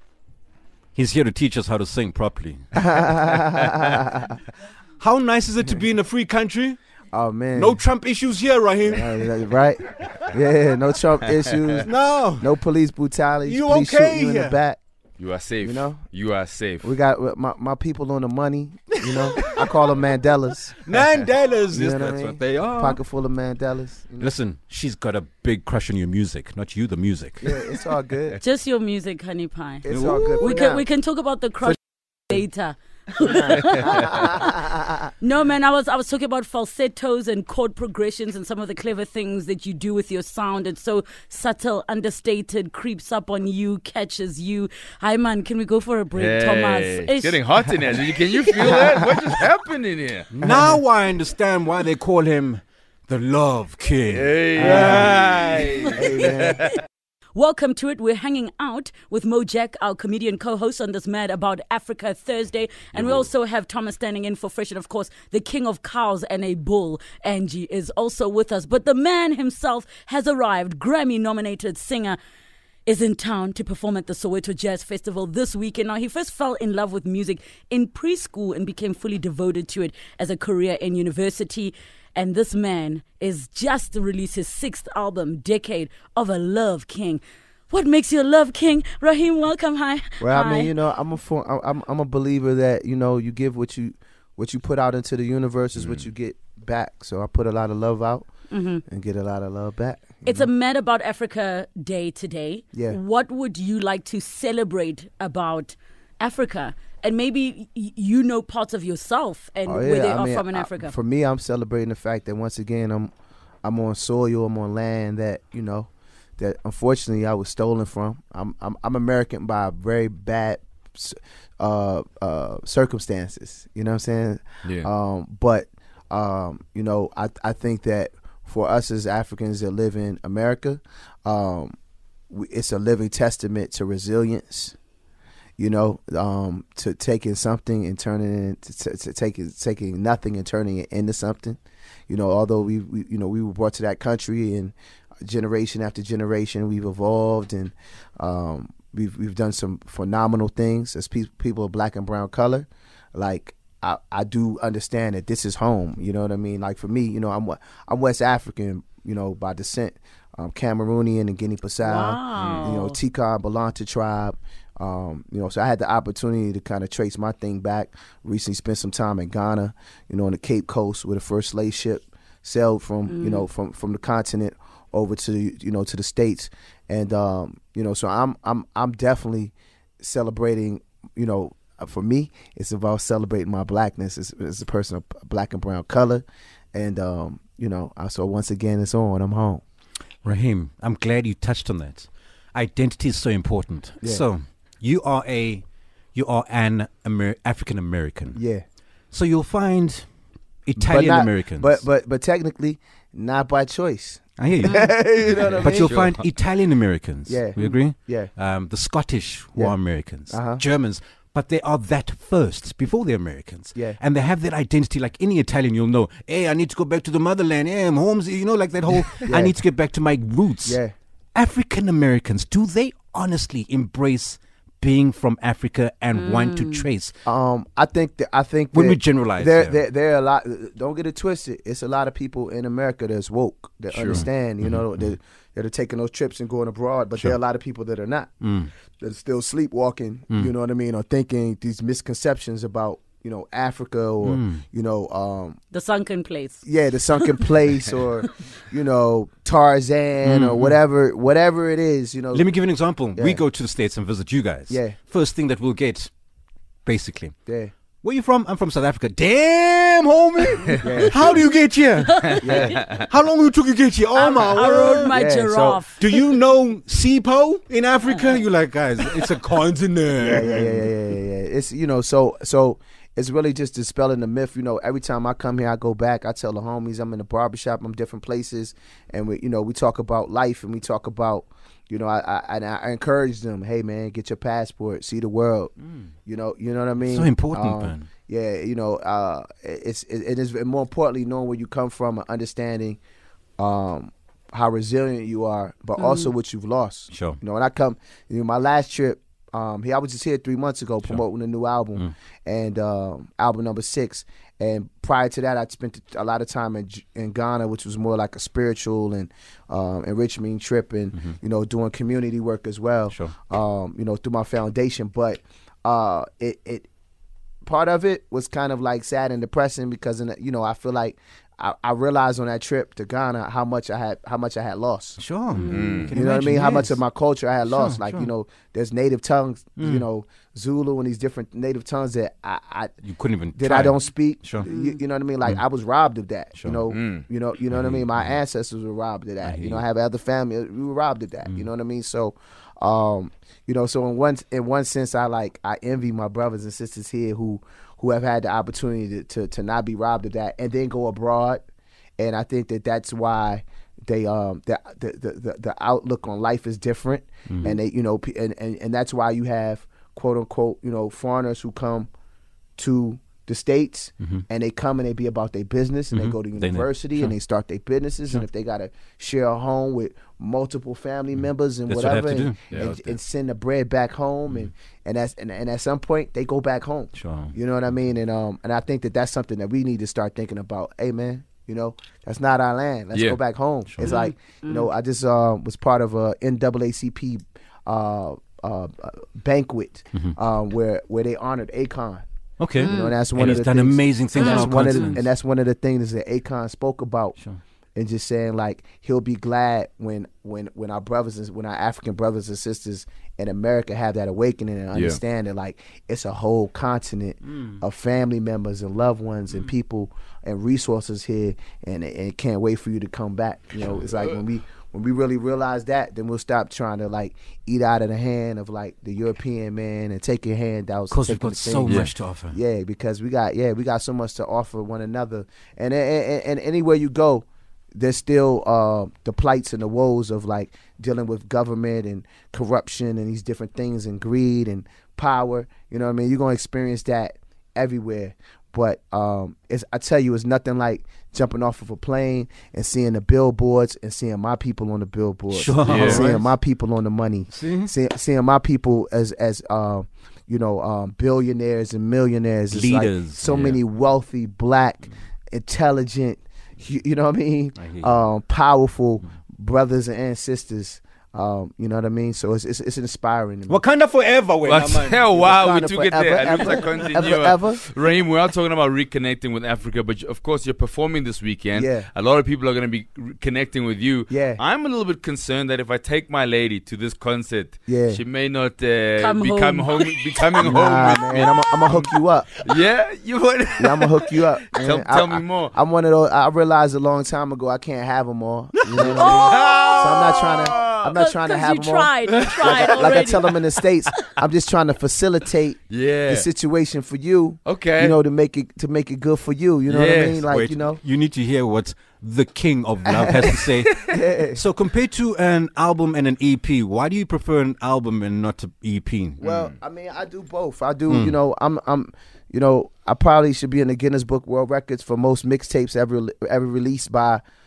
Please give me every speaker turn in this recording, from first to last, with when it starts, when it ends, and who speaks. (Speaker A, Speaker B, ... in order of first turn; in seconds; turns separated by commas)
Speaker A: 0.9-3.2, Speaker B: 2.8-4.4, Speaker A: 5.0-6.8, Speaker B: 7.1-7.8, Speaker A: 7.5-9.2, Speaker B: 8.8-14.8, Speaker A: 11.8-12.5, Speaker A: 13.4-14.6, Speaker C: 15.2-16.9, Speaker B: 15.6-16.0, Speaker B: 16.8-20.8, Speaker A: 19.1-19.8, Speaker A: 20.8-23.0, Speaker B: 21.7-24.3, Speaker A: 24.2-27.6, Speaker B: 27.4-28.4, Speaker D: 28.4-31.8, Speaker B: 29.8-30.8, Speaker A: 29.9-30.6, Speaker D: 32.3-34.6, Speaker B: 33.2-35.1, Speaker D: 35.2-47.4, Speaker C: 46.1-50.3, Speaker A: 50.3-56.0, Speaker B: 50.4-50.8, Speaker C: 54.1-56.8, Speaker B: 54.6-55.1, Speaker B: 55.9-56.7, Speaker D: 57.3-72.2, Speaker C: 62.9-63.3, Speaker D: 72.8-90.7, Speaker B: 90.2-98.3, Speaker C: 95.8-96.0, Speaker D: 98.5-98.8, Speaker B: 98.8-100.5, Speaker D: 100.2-110.9, Speaker B: 109.7-113.1, Speaker B: 113.6-131.7, Speaker B: 132.3-134.7, Speaker B: 135.6-144.7, Speaker B: 145.2-189.6, Speaker D: 161.8-163.0, Speaker C: 162.3-162.7, Speaker D: 173.1-173.5, Speaker A: 190.2-195.6, Speaker A: 196.1-198.4, Speaker B: 198.3-198.6, Speaker A: 199.1-200.1, Speaker A: 200.7-201.8, Speaker B: 200.8-205.9, Speaker A: 204.4-220.8, Speaker D: 204.6-204.9, Speaker C: 205.3-206.2, Speaker B: 207.2-208.3, Speaker B: 209.5-210.6, Speaker B: 213.7-214.0, Speaker B: 219.2-219.6, Speaker B: 220.6-220.9, Speaker A: 221.3-227.1, Speaker D: 226.1-226.9, Speaker B: 227.2-238.3, Speaker A: 228.7-229.8, Speaker A: 233.9-235.1, Speaker A: 238.4-238.7, Speaker B: 239.0-245.6, Speaker A: 244.2-244.6, Speaker D: 245.7-246.6, Speaker B: 246.6-252.5, Speaker D: 247.2-247.5, Speaker A: 250.2-250.8, Speaker A: 252.3-256.1, Speaker B: 253.1-253.4, Speaker B: 254.7-255.0, Speaker A: 256.8-257.3, Speaker B: 257.4-257.7, Speaker A: 258.0-265.1, Speaker B: 260.8-261.4, Speaker D: 262.0-262.8, Speaker B: 262.4-262.8, Speaker D: 264.1-266.2, Speaker B: 265.1-265.8, Speaker A: 266.0-270.9, Speaker B: 270.2-285.7, Speaker B: 286.2-293.0, Speaker A: 287.0-288.1, Speaker B: 293.6-316.9, Speaker D: 296.0-296.3, Speaker A: 297.1-297.4, Speaker B: 317.6-325.2, Speaker A: 325.2-327.0, Speaker D: 325.5-326.1, Speaker C: 325.7-326.1, Speaker B: 326.1-332.9, Speaker A: 327.6-328.3, Speaker A: 329.8-330.1, Speaker A: 333.0-334.6, Speaker B: 333.5-351.6, Speaker D: 334.6-335.0, Speaker A: 336.5-336.8, Speaker C: 336.9-337.2, Speaker A: 337.7-338.4, Speaker A: 339.4-339.8, Speaker B: 352.2-362.1, Speaker A: 357.5-357.8, Speaker B: 362.8-392.2, Speaker A: 366.1-367.4, Speaker A: 371.3-373.1, Speaker A: 377.1-377.5, Speaker C: 383.1-383.4, Speaker D: 384.0-384.9, Speaker A: 392.6-395.3, Speaker D: 392.8-393.2, Speaker B: 392.8-397.4, Speaker D: 394.3-395.2, Speaker B: 397.9-463.8, Speaker C: 404.9-405.2, Speaker A: 407.5-407.8, Speaker A: 421.1-422.6, Speaker A: 445.5-446.5, Speaker C: 445.8-446.3, Speaker A: 447.5-447.9, Speaker A: 452.7-453.8, Speaker A: 457.8-458.2, Speaker A: 463.7-465.2, Speaker C: 464.6-482.1, Speaker B: 465.3-467.8, Speaker B: 471.7-472.1, Speaker B: 474.3-474.6, Speaker B: 477.9-478.2, Speaker D: 479.2-480.2, Speaker B: 480.6-482.5, Speaker C: 482.6-485.7, Speaker B: 483.8-501.0, Speaker C: 488.9-491.1, Speaker D: 489.1-493.6, Speaker C: 492.3-493.2, Speaker C: 495.9-496.5, Speaker C: 497.6-498.2, Speaker C: 499.9-500.4, Speaker A: 500.4-509.4, Speaker B: 503.1-504.6, Speaker B: 509.4-517.4, Speaker C: 509.4-509.8, Speaker A: 511.1-511.4